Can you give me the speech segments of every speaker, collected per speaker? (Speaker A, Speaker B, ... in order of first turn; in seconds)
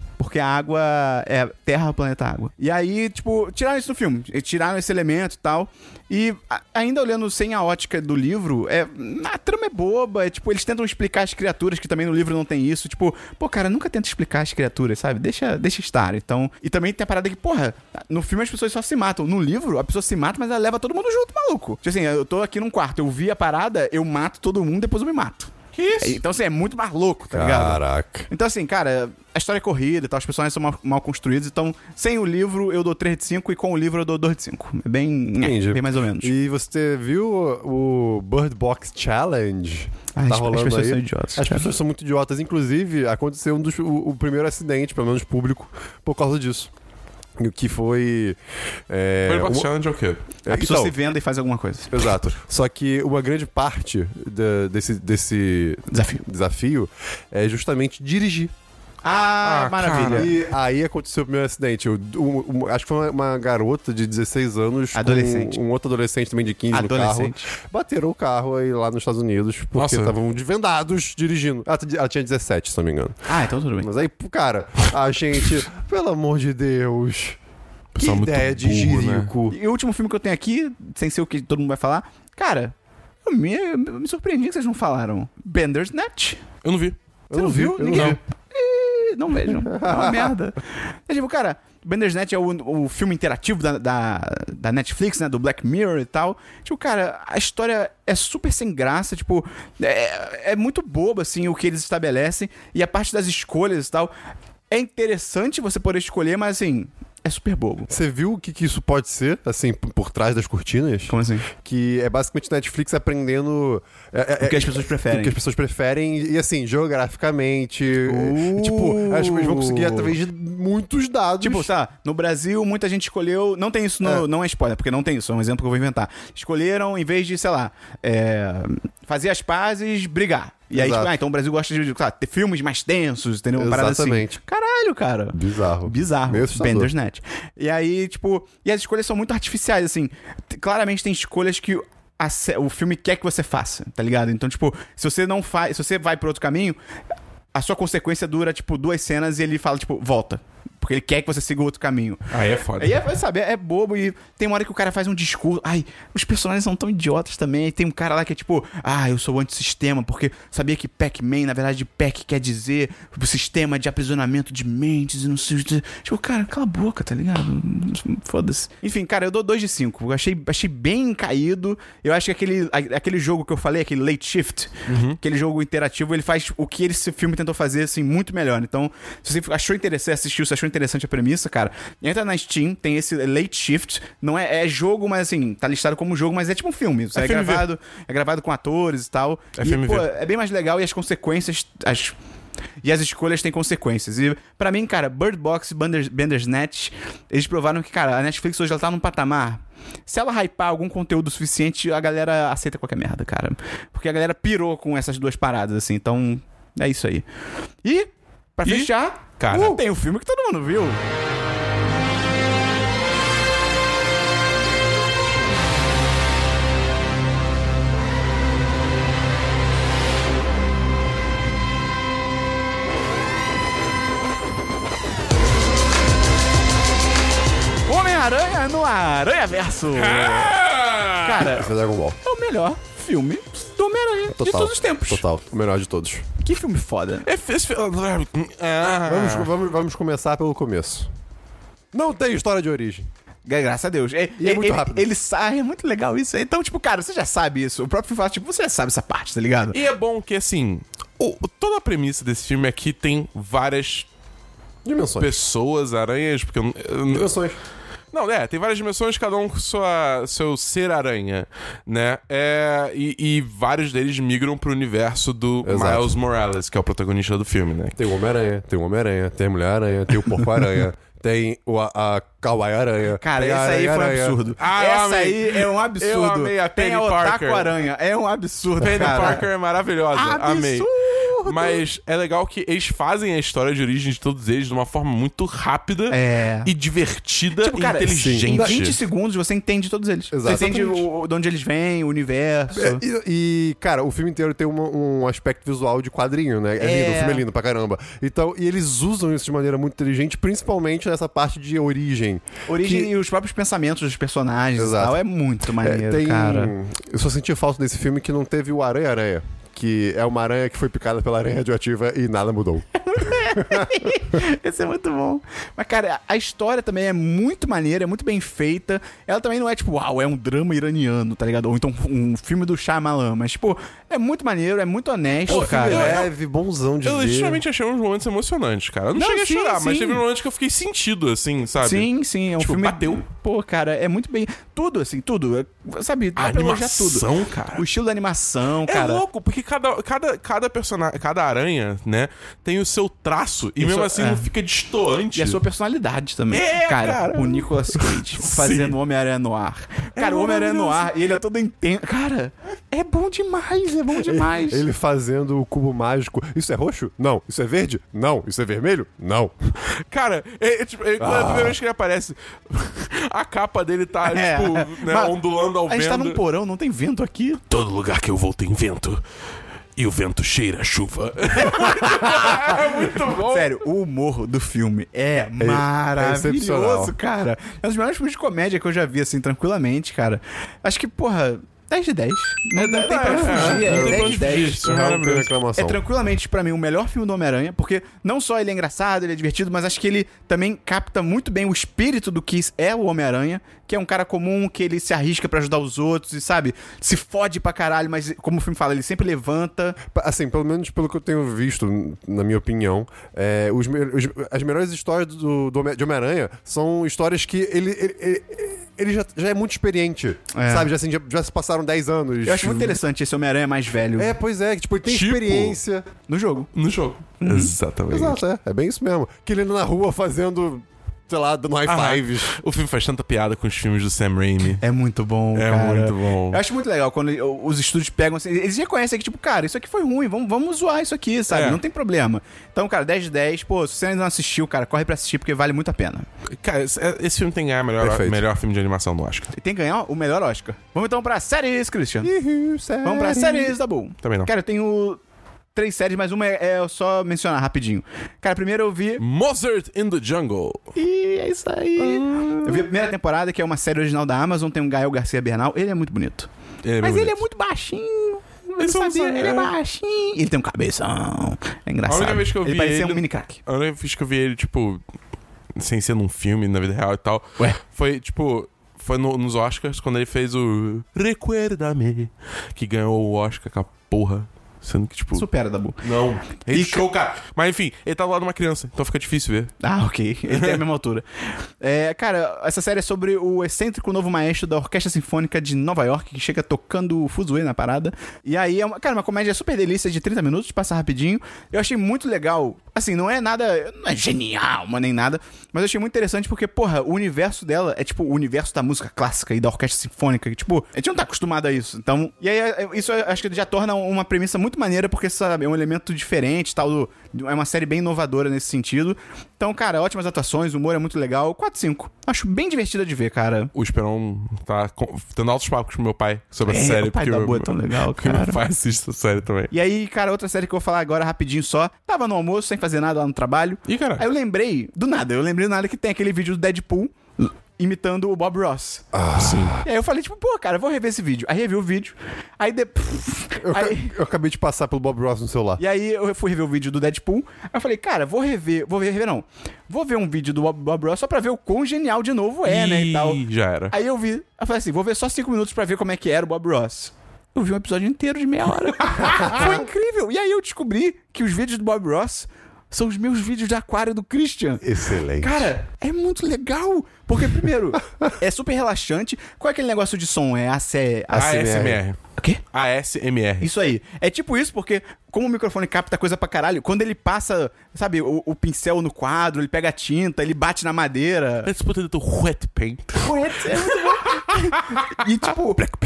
Speaker A: 0.2-36.3, 40.1-41.7, 50.5-52.0, 55.9-56.2, 59.0-60.3, 64.9-65.6, 66.7-67.5, 73.3-73.9, 79.5-86.4, 87.3-104.1, 104.7-107.9, 111.1-111.5, 114.4-115.3, 117.9-120.1, 121.4-146.8, 147.5-152.2, 152.8-192.1, 192.8-207.2, 207.8-211.0, 227.9-230.6, 231.2-231.7, 232.2-235.2, 236.4-237.3, 243.4-249.8, 273.1-279.4, 280.1-281.8, 286.1-286.7, 287.6-293.0, 296.8-297.4, 302.7-306.7, 313.0-326.2, 329.1-330.2, 331.8-339.2, 343.8-344.5, 345.3-354.8, 364.2-365.3, 365.9-367.6, 371.8-385.0, 385.7-400.0, 410.5-410.9, 412.4-414.4, 416.3-416.7, 417.4-417.7, 424.8-436.3, 439.5-442.3, 443.0-445.2, 445.7-449.2, 450.9-456.5, 457.0-463.6, 475.3-476.0, 476.7-477.1, 479.8-481.2, 481.8-513.7, 516.7-518.6, 519.7-529.0, 529.8-534.1, 535.8-554.8, 555.4-561.6, 563.6-571.7, 573.2-575.9
Speaker B: 25.7-26.2, 49.2-50.3, 59.4-60.3, 69.7-70.1, 77.9-79.3, 86.6-87.0, 87.9-88.2, 152.3-153.0, 174.9-175.2, 187.1-187.6, 189.6-190.1, 208.6-209.8, 229.9-231.6, 237.2-239.5, 249.7-254.1, 255.2-257.3, 258.1-268.0, 274.6-277.7, 278.8-280.9, 281.4-289.0, 325.5-326.3, 327.0-333.2, 336.4-337.8, 338.9-345.6, 346.5-348.9, 350.1-351.1, 360.1-366.4, 367.7-369.2, 370.0-373.8, 382.8-385.5, 415.1-415.8, 416.7-418.4, 421.9-424.8, 425.5-426.6, 431.5-431.8, 436.6-439.5, 444.2-444.5, 449.2-450.9, 452.0-452.9, 456.8-457.4, 458.8-459.7, 462.1-465.0, 465.8-475.4, 476.0-479.7, 480.5-480.8, 513.7-519.7, 523.9-524.2, 529.4-529.8, 542.6-543.9, 561.3-562.2, 562.7-563.7, 571.6-574.0
Speaker C: 27.3-28.3, 35.4-46.7, 47.4-48.4, 48.9-49.7, 50.4-50.9, 51.9-58.5, 60.1-73.3, 73.8-77.4, 78.0-79.5, 87.3-88.2, 89.6-90.3, 107.9-121.7, 130.7-131.1, 133.5-134.4, 135.3-136.9, 231.4-232.2, 234.3-236.2, 239.0-241.1, 241.9-243.1, 244.4-245.1, 254.8-255.3, 257.1-257.6, 265.6-266.1, 267.9-274.4, 279.0-279.4, 288.2-288.8, 290.3-291.1, 292.7-303.1, 304.8-305.2, 305.7-314.4, 325.5-327.6, 354.1-359.7, 361.2-361.8, 375.6-377.1, 383.3-386.0, 400.1-413.0, 414.1-416.1, 418.1-422.6, 438.0-438.4, 442.2-443.7, 529.1-529.8, 533.6-535.8, 549.3-549.7, 554.8-555.7, 561.3-562.0